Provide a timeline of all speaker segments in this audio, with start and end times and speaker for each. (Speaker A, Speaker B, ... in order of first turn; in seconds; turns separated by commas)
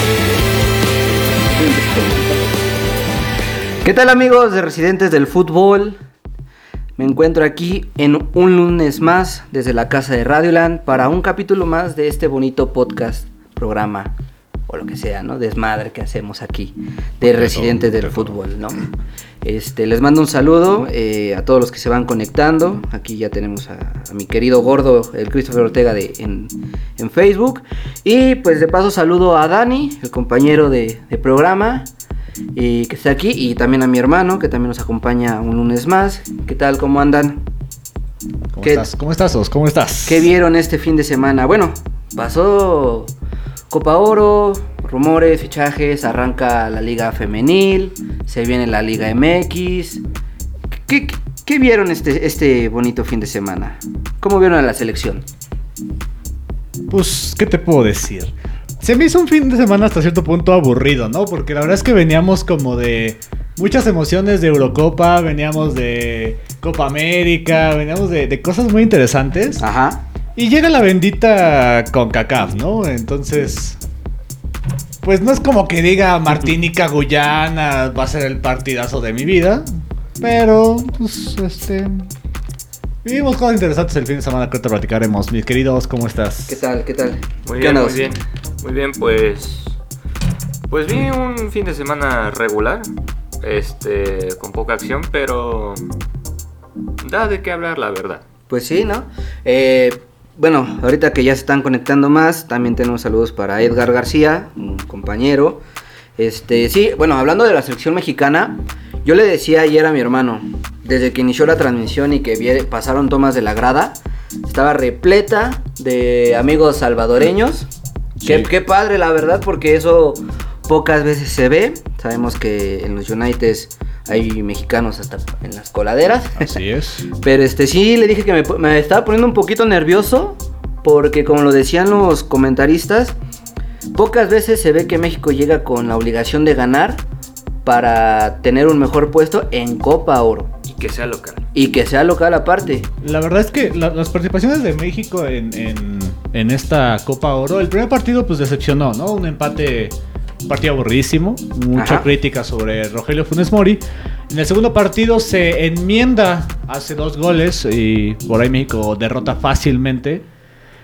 Speaker A: 1.5-2.4, Speaker A: 3.8-6.0, Speaker A: 7.0-14.1, Speaker A: 14.7-18.9, Speaker B: 17.2-18.4, Speaker A: 19.4-31.9, Speaker A: 32.5-37.4, Speaker B: 38.5-40.2, Speaker A: 38.6-38.9, Speaker A: 40.1-43.1, Speaker A: 43.7-50.0, Speaker A: 50.7-55.2, Speaker B: 56.9-69.6, Speaker A: 69.6-70.0, Speaker B: 70.3-73.8, Speaker B: 75.0-82.1, Speaker B: 83.0-86.6, Speaker A: 86.5-88.1, Speaker C: 87.5-89.8, Speaker C: 90.7-92.9, Speaker C: 93.4-95.8, Speaker C: 97.0-98.2, Speaker A: 98.5-105.6, Speaker A: 106.2-117.7, Speaker B: 118.2-118.5, Speaker A: 118.2-133.2, Speaker B: 126.3-127.1, Speaker A: 133.9-137.0, Speaker A: 137.6-140.5, Speaker C: 140.7-141.4, Speaker A: 141.5-142.9, Speaker B: 143.0-149.9, Speaker B: 150.5-160.2, Speaker A: 151.7-152.1